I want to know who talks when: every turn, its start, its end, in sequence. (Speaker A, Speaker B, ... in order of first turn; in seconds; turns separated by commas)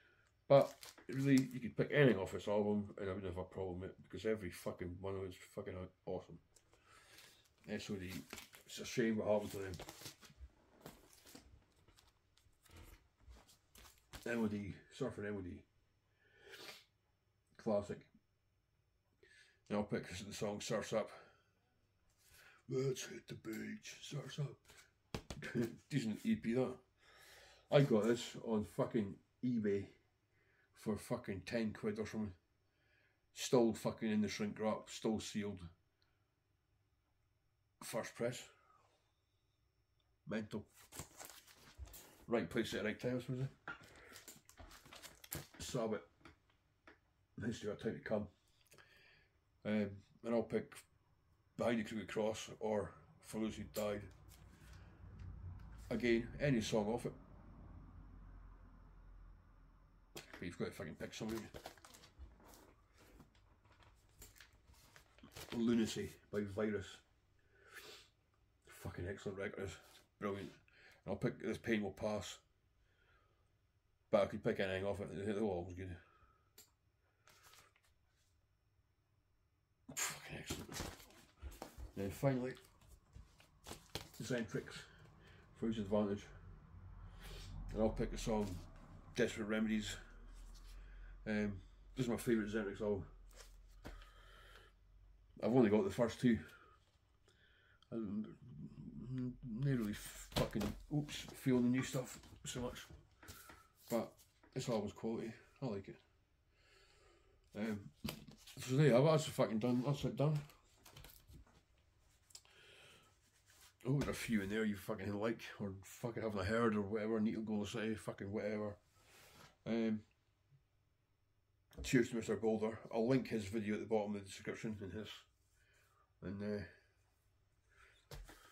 Speaker A: 0.5-6.4, Speaker A: 7.6-9.8, Speaker A: 14.2-15.7, Speaker A: 17.5-18.1, Speaker A: 19.7-21.3, Speaker A: 22.7-24.6, Speaker A: 25.4-26.8, Speaker A: 27.7-29.9, Speaker A: 30.7-32.4, Speaker A: 33.3-35.7, Speaker A: 37.8-38.5, Speaker A: 40.2-40.7, Speaker A: 42.2-43.5, Speaker A: 45.6-46.0, Speaker A: 47.4-48.3, Speaker A: 49.6-50.8, Speaker A: 51.5-54.1, Speaker A: 55.9-57.1, Speaker A: 60.1-61.5, Speaker A: 65.5-67.0, Speaker A: 68.6-72.4, Speaker A: 74.1-76.0, Speaker A: 79.9-81.0, Speaker A: 81.9-82.6, Speaker A: 84.2-84.9, Speaker A: 85.5-86.3, Speaker A: 87.7-90.0, Speaker A: 91.2-93.1, Speaker A: 95.4-96.6, Speaker A: 97.9-102.9, Speaker A: 103.9-106.0, Speaker A: 107.5-110.5, Speaker A: 113.8-118.8, Speaker A: 119.6-120.0, Speaker A: 121.8-125.3, Speaker A: 126.2-126.7